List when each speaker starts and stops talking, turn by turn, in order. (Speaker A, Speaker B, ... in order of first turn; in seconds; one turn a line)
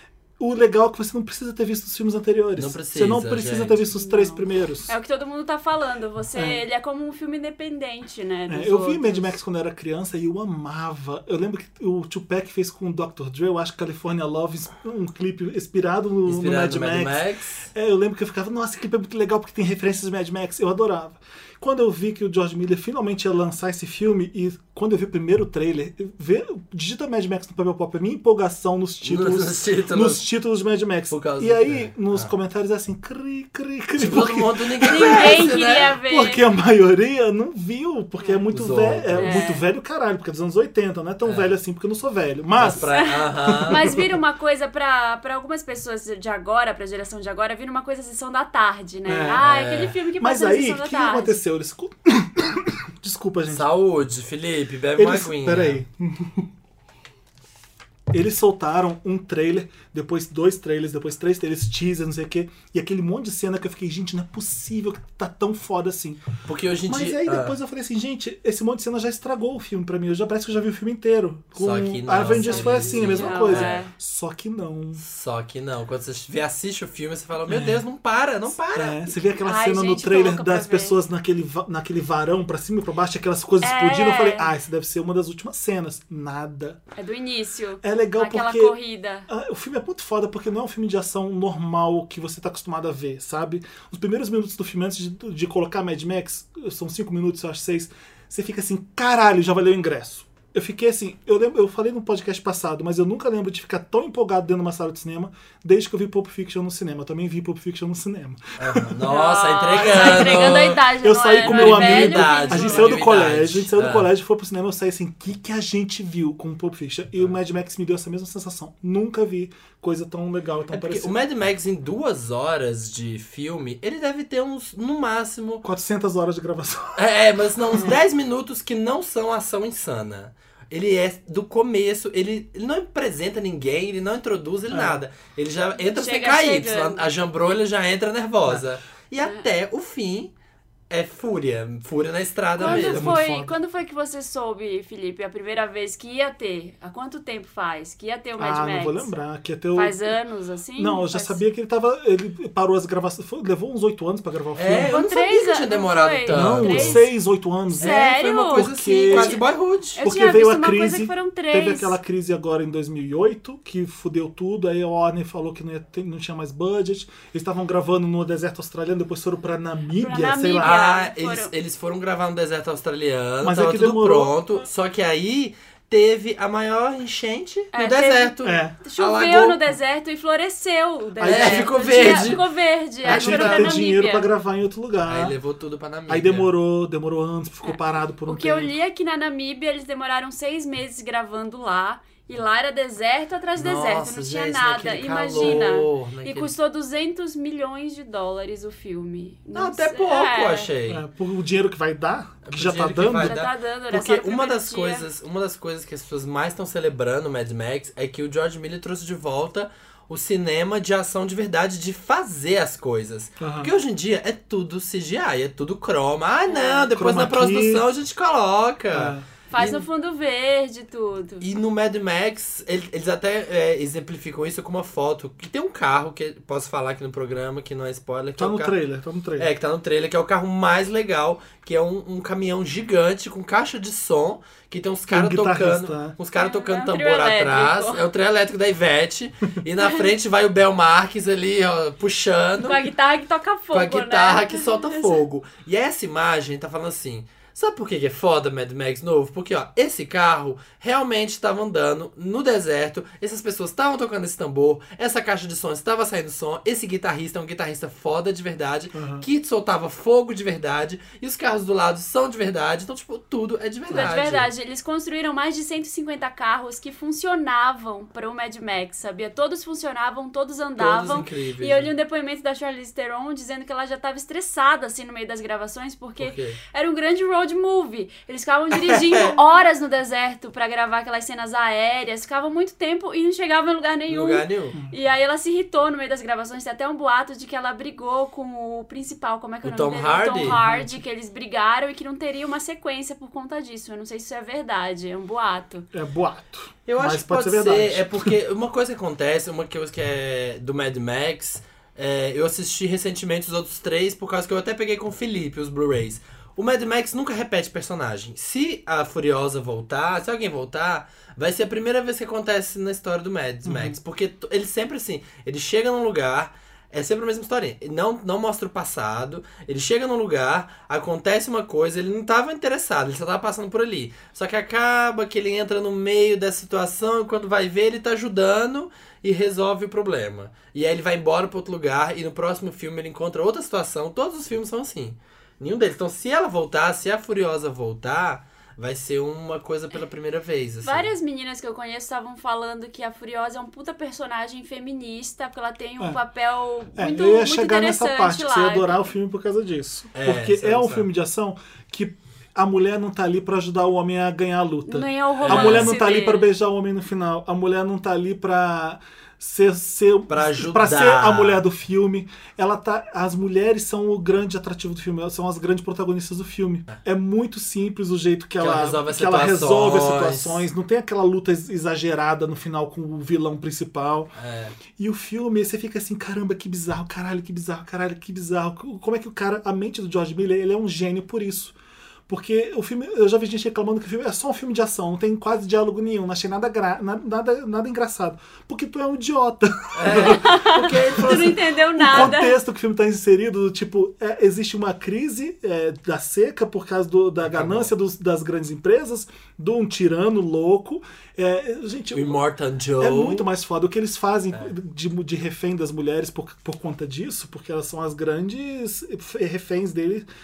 Speaker A: 0.4-4.9
Speaker B: 2.5-3.8
Speaker C: 3.9-9.3
Speaker A: 6.3-6.6
Speaker A: 8.5-42.9
Speaker B: 16.2-17.6
Speaker B: 29.0-30.2
Speaker B: 31.1-32.3
Speaker B: 34.0-36.0
Speaker C: 34.8-36.4
Speaker B: 38.5-39.5
Speaker C: 39.2-39.6
Speaker B: 41.2-41.5
Speaker B: 42.6-43.9
Speaker C: 42.9-51.4
Speaker A: 43.4-44.2
Speaker A: 49.1-49.4
Speaker B: 49.4-50.0
Speaker A: 50.2-53.7
Speaker B: 53.5-55.8
Speaker A: 55.0-56.5
Speaker A: 58.1-66.2
Speaker B: 66.4-67.5
Speaker A: 66.8-75.0
Speaker B: 71.6-73.8
Speaker C: 72.3-73.9
Speaker B: 75.0-79.0
Speaker A: 77.5-77.8
Speaker A: 78.7-86.8
Speaker C: 79.3-81.0
Speaker C: 83.6-84.5
Speaker C: 87.0-89.3
Speaker A: 87.8-88.8
Speaker A: 89.3-109.0
Speaker B: 108.6-110.8
Speaker C: 109.0-113.0
Speaker A: 109.8-121.2
Speaker B: 111.4-114.1
Speaker B: 120.7-125.6
Speaker A: 125.6-127.0
Speaker B: 127.0-140.3
Speaker A: 134.7-135.0
Speaker C: 135.9-137.0
Speaker B: 140.9-143.2
Speaker C: 142.6-149.1
Speaker A: 142.6-143.6
Speaker A: 148.4-150.0
Speaker C: 149.7-151.4
Speaker A: 150.8-155.0
Speaker B: 154.5-157.1
Speaker C: 154.7-157.1
Speaker A: 156.3-159.4
Speaker C: 157.7-159.4
Speaker B: 157.8-160.0
Speaker C: 159.9-162.0
Speaker A: 160.0-170.8
Speaker C: 169.9-171.5
Speaker B: 170.6-179.6
Speaker A: 173.4-174.4
Speaker C: 177.7-184.3
Speaker A: 178.4-178.8
Speaker A: 181.2-182.4
Speaker B: 181.2-182.4
Speaker B: 183.0-183.8
Speaker A: 183.1-185.3
Speaker B: 185.0-186.5
Speaker A: 186.1-188.7
Speaker C: 187.6-200.7
Speaker B: 193.6-196.5
Speaker A: 195.4-195.7
Speaker B: 199.5-201.0
Speaker A: 200.9-203.4
Speaker B: 202.4-219.8
Speaker C: 203.2-205.1
Speaker A: 213.4-213.7
Speaker C: 216.4-216.9
Speaker A: 216.9-217.8
Speaker A: 218.9-219.2
Speaker C: 219.5-221.4
Speaker B: 221.4-228.7
Speaker A: 228.4-229.5
Speaker B: 229.4-242.9
Speaker A: 235.1-236.2
Speaker C: 236.4-238.0
Speaker C: 239.8-240.1
Speaker C: 242.6-245.2
Speaker B: 243.7-264.5
Speaker A: 258.9-259.2
Speaker C: 263.9-295.9
Speaker B: 270.8-271.9
Speaker B: 276.2-276.6
Speaker B: 278.7-279.3
Speaker B: 284.1-284.8
Speaker B: 289.6-290.6
Speaker A: 290.4-291.0
Speaker A: 295.9-298.3
Speaker B: 296.9-341.1
Speaker A: 313.6-314.0
Speaker C: 340.8-349.1
Speaker A: 346.9-374.3
Speaker B: 350.1-351.1
Speaker C: 354.9-356.5
Speaker B: 355.4-355.9
Speaker B: 360.3-361.6
Speaker B: 368.6-370.6
Speaker B: 374.4-374.8
Speaker A: 374.9-381.7
Speaker A: 382.3-402.4
Speaker B: 389.9-392.3
Speaker C: 390.1-392.6
Speaker B: 397.4-397.9
Speaker B: 402.1-403.5
Speaker A: 403.0-410.2